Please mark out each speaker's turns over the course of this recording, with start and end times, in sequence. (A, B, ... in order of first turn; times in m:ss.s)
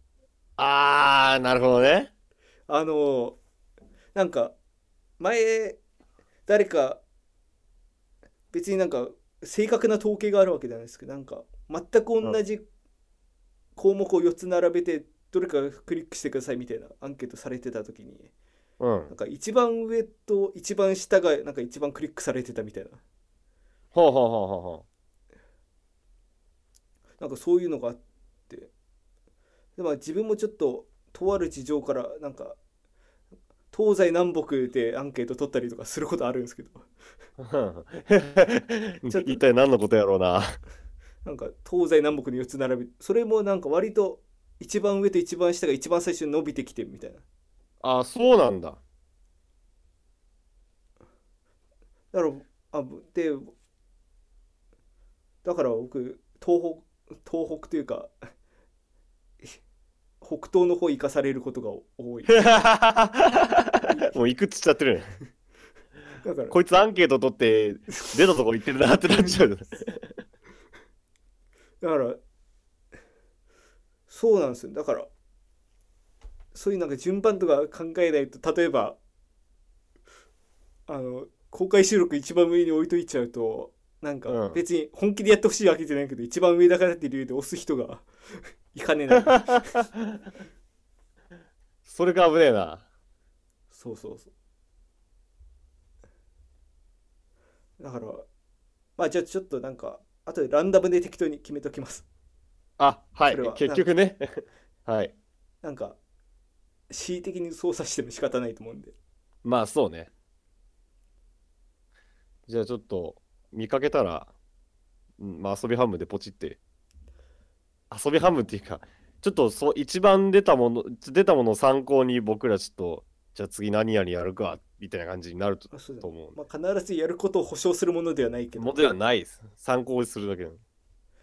0:00.6-0:02.1 A
0:02.7-0:03.4 B
0:04.1-0:04.5 B
0:05.2-0:05.8 B
0:06.5-0:07.0 B
0:08.5-0:12.6 B
0:13.8-0:18.3 B
0:18.8-0:19.1 A
0:19.1-0:23.0 B
0:23.9-0:24.8 A
0:27.2-0:28.7 B
0:29.8-0:32.6 B
0:33.7-0:36.8 B
0:37.4-0:40.6 A
0:39.0-0:39.4 B
0:41.2-0:47.2 B
0:47.8-0:48.8 A
0:52.1-0:53.5 B
0:55.4-0:58.1 B
1:00.2-1:02.4 B
1:02.3-1:05.1 A
1:03.9-1:04.1 B
1:06.2-1:06.6 B
1:06.5-1:10.0 A
1:11.8-1:12.2 B
1:14.1-1:15.1 B
1:16.5-1:19.0 B
1:20.9-1:28.1 B
1:24.3-1:24.6 A
1:28.7-1:29.9 B
1:29.2-1:30.0 A
1:31.8-1:32.8 A
1:33.7-1:34.3 B
1:37.8-1:38.3 B
1:39.0-1:42.0 B
1:42.8-1:44.2 A
1:43.3-1:43.9 B
1:44.8-1:45.1 A
1:45.6-1:46.0 B
1:46.9-1:48.9 B
1:49.4-1:50.1 A
1:52.5-1:54.3 A
1:55.2-1:56.6 A
1:57.9-2:06.4 A
2:05.7-2:09.0 B
2:08.6-2:10.6 A